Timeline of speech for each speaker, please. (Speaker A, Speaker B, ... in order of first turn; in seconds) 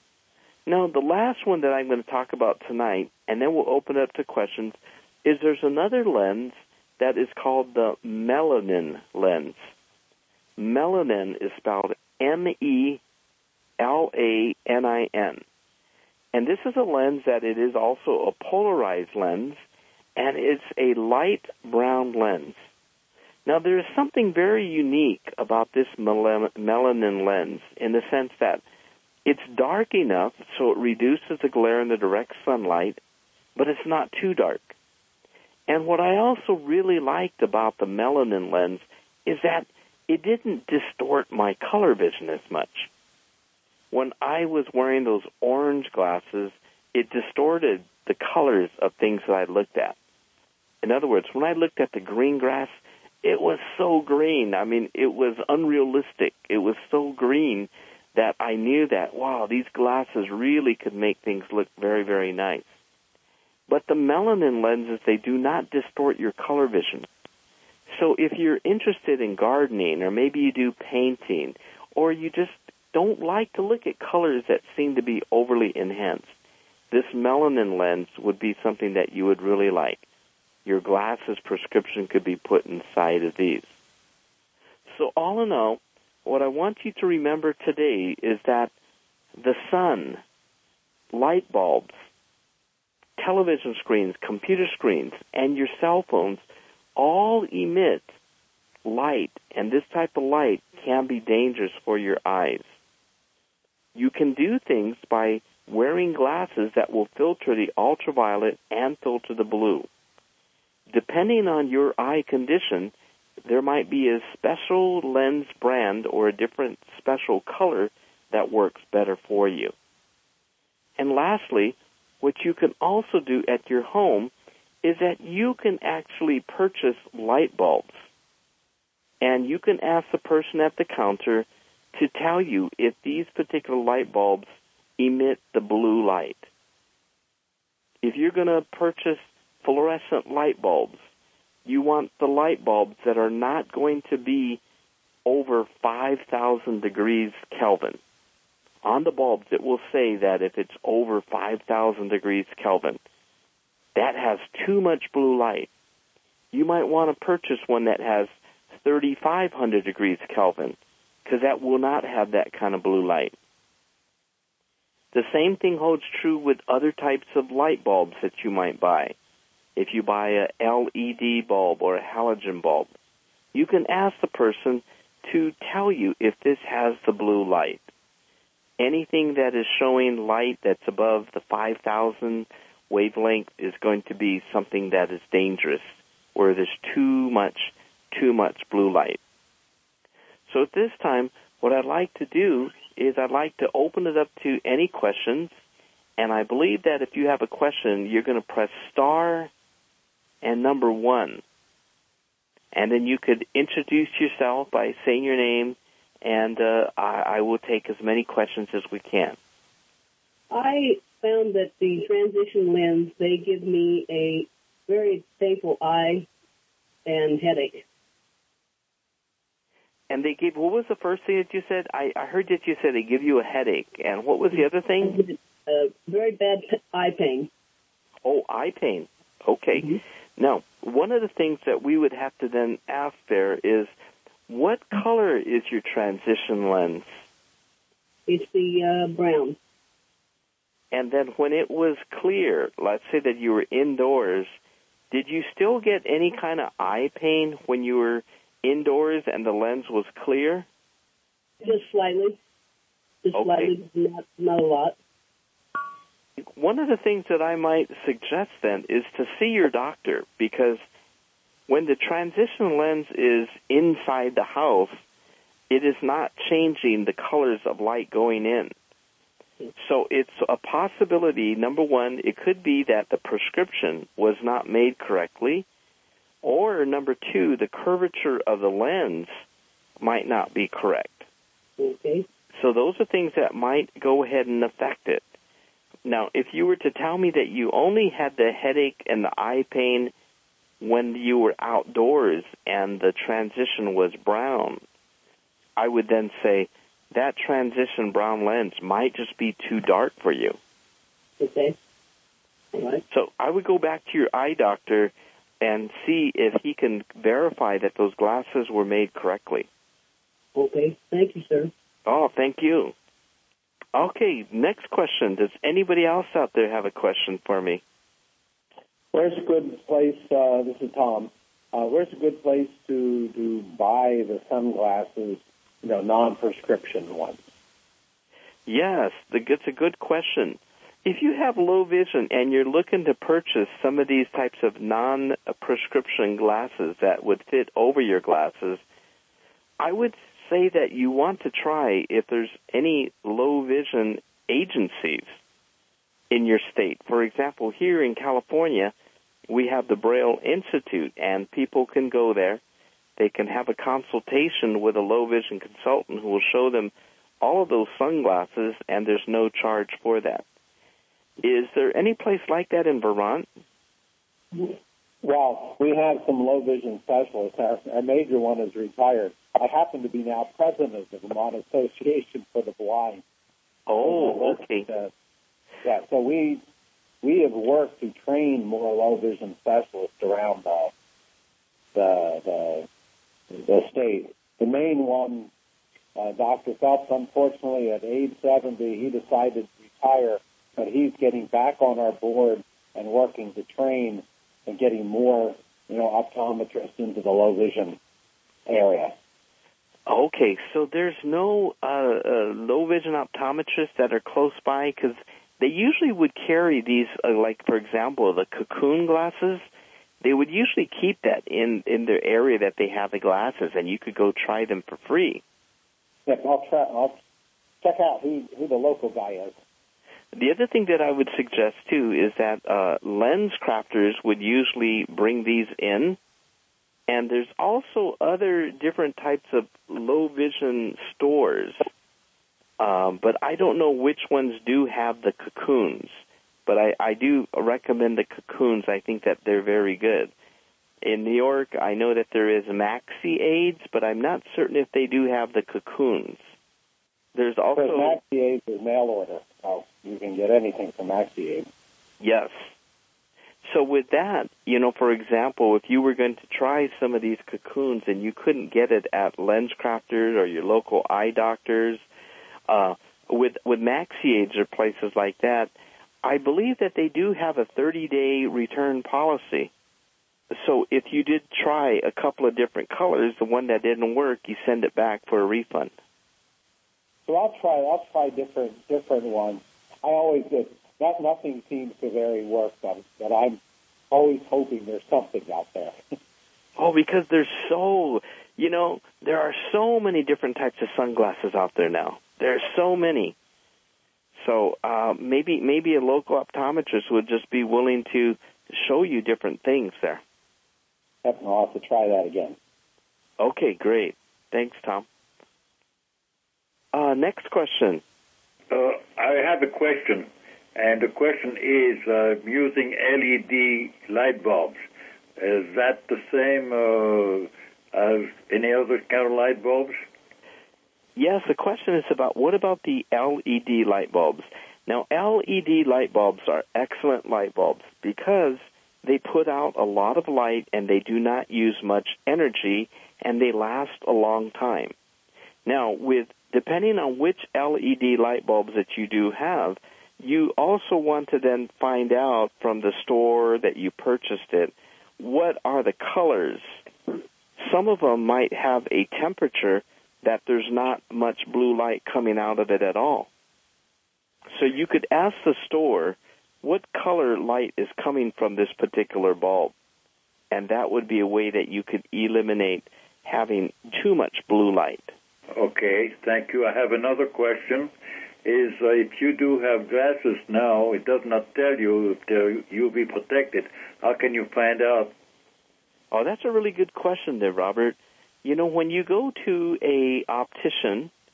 Speaker A: 0.7-9.7, 10.6-13.0, 13.8-15.4, 16.3-19.6, 20.2-22.7, 23.5-28.6, 29.3-33.0, 33.6-34.8, 35.7-42.9, 43.9-50.0, 50.8-62.7, 63.7-67.1, 67.9-76.3, 76.9-80.0, 80.7-83.7, 84.9-88.7, 89.4-90.2, 91.1-92.1, 93.2-96.4, 97.0-98.2, 98.8-102.8, 104.0-109.9, 110.9-112.9, 113.5-119.7, 121.0-124.3, 124.8-128.1, 129.2-136.5, 138.0-141.1, 141.7-144.6, 145.3-148.0, 148.8-153.0, 153.9-155.7, 156.5-163.3, 165.1-169.2, 169.8-172.9, 173.5-177.9, 178.8-189.2, 190.5-195.6, 196.2-199.5, 200.4-201.4, 202.7-209.4, 220.1-225.2, 228.2-233.9, 234.5-237.2, 240.9-244.6, 245.1-250.7, 253.3-253.7, 256.4-260.8, 261.7-265.0, 265.7-268.7, 269.8-275.7, 276.4-279.4, 280.0-281.3, 282.5-285.2, 286.1-290.1, 290.8-294.8, 295.8-300.6, 303.1-309.7, 312.1-312.9, 313.9-317.8, 328.7-338.8, 339.8-345.4, 346.3-348.9, 349.5-352.6, 353.2-360.4, 361.4-363.5, 373.9-374.9, 400.1-409.7, 410.2-415.4, 420.3-426.2, 427.1-431.9, 432.8-440.3, 441.0-446.5, 447.4-448.2, 452.2-452.7, 453.6-462.0, 462.7-465.7, 466.2-469.7, 470.5-475.9, 486.8-493.4, 494.4-500.2, 503.4-505.1, 506.9-508.0, 521.2-534.9, 535.7-546.9, 547.6-553.3, 554.5-559.7, 560.5-565.1, 576.1-581.1
Speaker B: 210.5-216.3, 217.1-217.8, 225.0-227.5, 238.3-239.6, 251.6-252.4, 253.2-255.0, 281.8-282.2, 301.4-301.8, 302.7-303.0, 310.6-311.7
Speaker C: 319.1-327.4, 365.2-373.2, 374.0-375.1, 375.8-376.6, 377.2-380.9, 381.9-382.9, 383.7-385.5, 386.2-398.0, 398.7-399.1, 416.3-417.2, 417.8-419.6, 447.8-451.7, 477.3-483.6, 484.1-486.0, 501.2-502.6
Speaker D: 508.7-514.8, 515.4-520.0, 565.5-567.9, 568.4-575.1